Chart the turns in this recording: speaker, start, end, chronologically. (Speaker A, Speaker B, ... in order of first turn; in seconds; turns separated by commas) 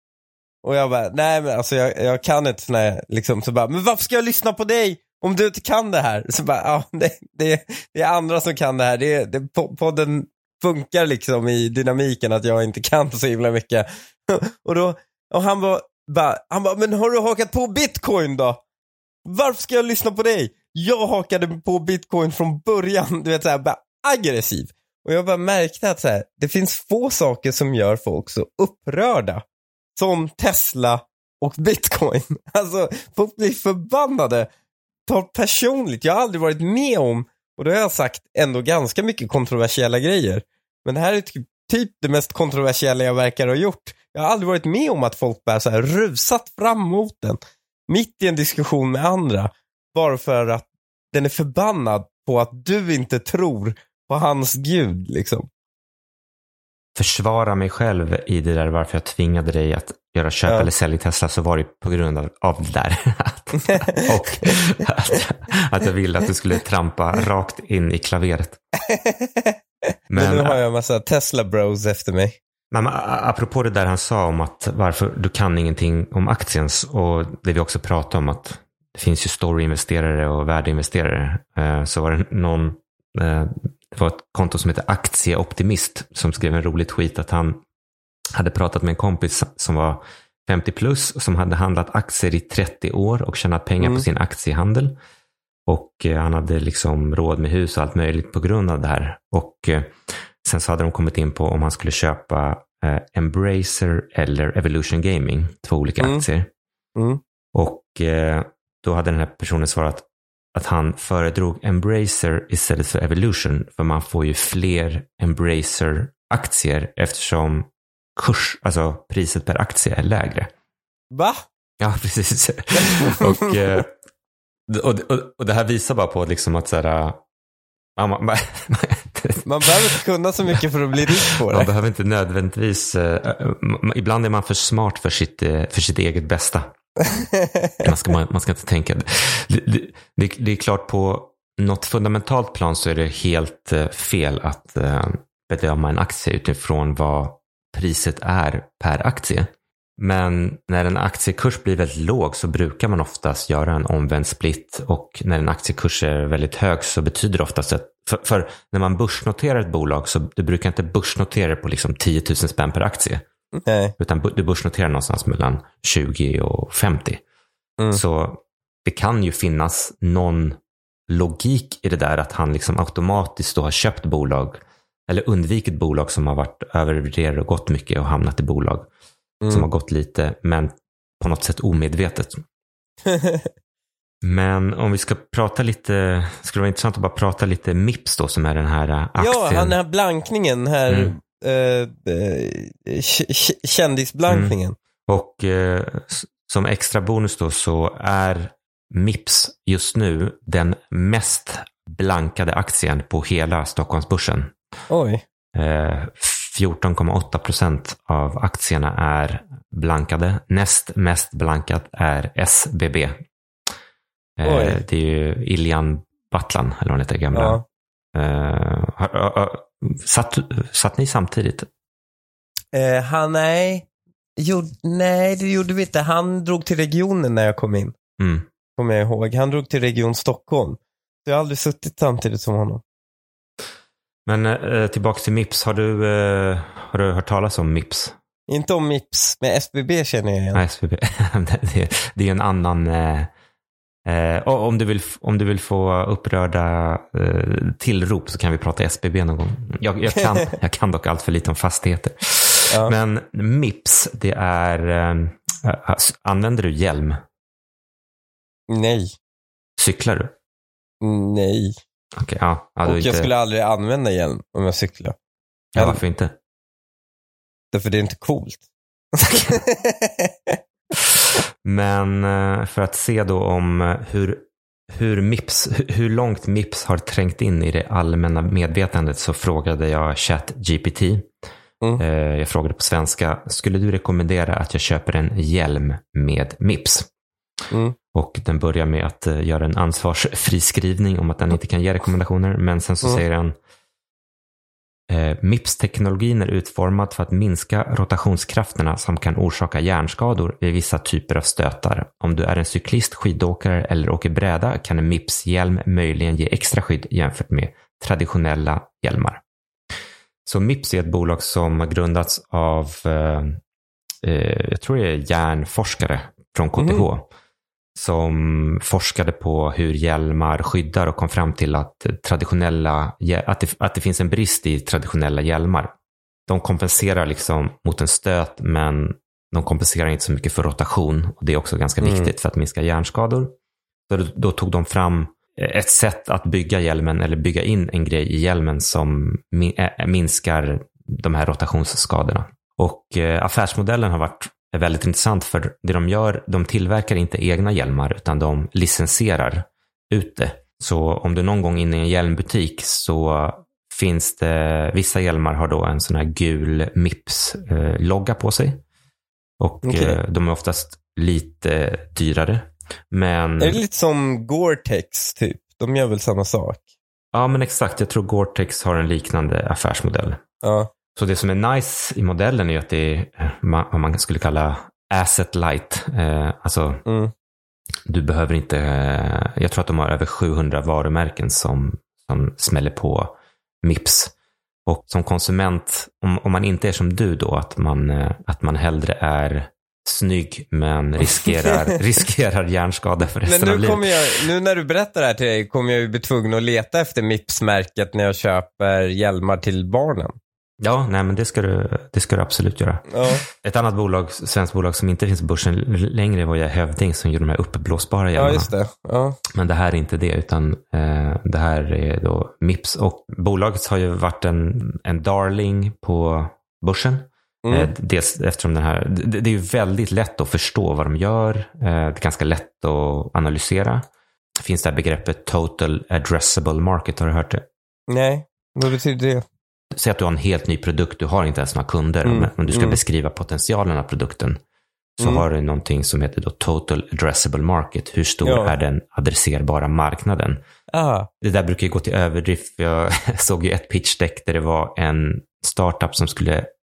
Speaker A: 0.6-18.6, Speaker A: 19.2-29.4, Speaker A: 29.9-34.5, Speaker A: 35.1-55.5, Speaker B: 57.0-68.6, Speaker A: 68.9-69.5, Speaker B: 70.1-70.6, Speaker A: 70.2-72.4, Speaker B: 72.7-87.6, Speaker B: 88.3-95.0, Speaker A: 93.8-94.1, Speaker B: 95.7-106.5, Speaker A: 107.0-107.2, Speaker B: 107.5-120.5, Speaker A: 121.1-121.5, Speaker B: 121.8-123.9, Speaker A: 123.0-123.5, Speaker B: 124.7-127.2, Speaker B: 128.0-130.0, Speaker A: 129.4-131.7, Speaker B: 131.2-136.7, Speaker A: 137.4-137.7, Speaker B: 137.8-163.2, Speaker A: 163.6-163.9, Speaker B: 164.0-167.2, Speaker B: 167.9-178.9, Speaker A: 179.4-179.7, Speaker B: 179.5-182.4, Speaker A: 183.1-183.5, Speaker B: 184.2-189.8, Speaker A: 189.2-194.8, Speaker B: 190.9-191.1, Speaker B: 194.3-204.6, Speaker A: 204.9-205.2, Speaker B: 205.6-213.2, Speaker B: 214.4-217.6, Speaker A: 214.4-214.8, Speaker A: 217.3-217.6, Speaker B: 218.2-221.7, Speaker A: 222.7-223.9, Speaker A: 224.4-228.0, Speaker B: 228.2-228.5, Speaker A: 228.8-232.8, Speaker B: 234.3-238.2, Speaker A: 238.5-240.6, Speaker B: 240.5-243.3, Speaker B: 244.1-257.2, Speaker A: 258.7-259.1, Speaker B: 259.8-260.3, Speaker A: 261.0-261.8, Speaker B: 262.2-263.3, Speaker A: 262.9-265.1, Speaker B: 265.8-266.4, Speaker A: 267.7-268.6, Speaker A: 269.2-270.6, Speaker B: 271.6-281.3, Speaker B: 282.0-287.1, Speaker A: 287.7-288.0, Speaker B: 288.1-293.6, Speaker B: 295.1-309.4, Speaker B: 310.4-313.6, Speaker B: 314.2-317.3, Speaker A: 316.8-317.1, Speaker B: 317.9-325.9, Speaker B: 326.5-333.6, Speaker A: 332.0-332.3, Speaker B: 334.1-358.8, Speaker B: 359.6-363.8, Speaker A: 359.8-360.2, Speaker A: 363.6-366.9, Speaker B: 367.3-370.4, Speaker A: 370.6-370.9, Speaker B: 371.1-377.0, Speaker A: 377.1-377.3, Speaker B: 378.1-384.3, Speaker B: 384.9-394.4, Speaker A: 393.4-400.4, Speaker B: 400.8-408.7, Speaker A: 403.1-403.4, Speaker A: 408.4-409.4, Speaker B: 409.6-424.1, Speaker A: 417.6-417.9, Speaker B: 424.6-427.6, Speaker A: 428.1-429.4, Speaker B: 429.9-434.6, Speaker A: 432.2-433.0, Speaker B: 435.2-440.6, Speaker A: 438.4-438.7, Speaker A: 440.9-441.3, Speaker B: 441.4-446.7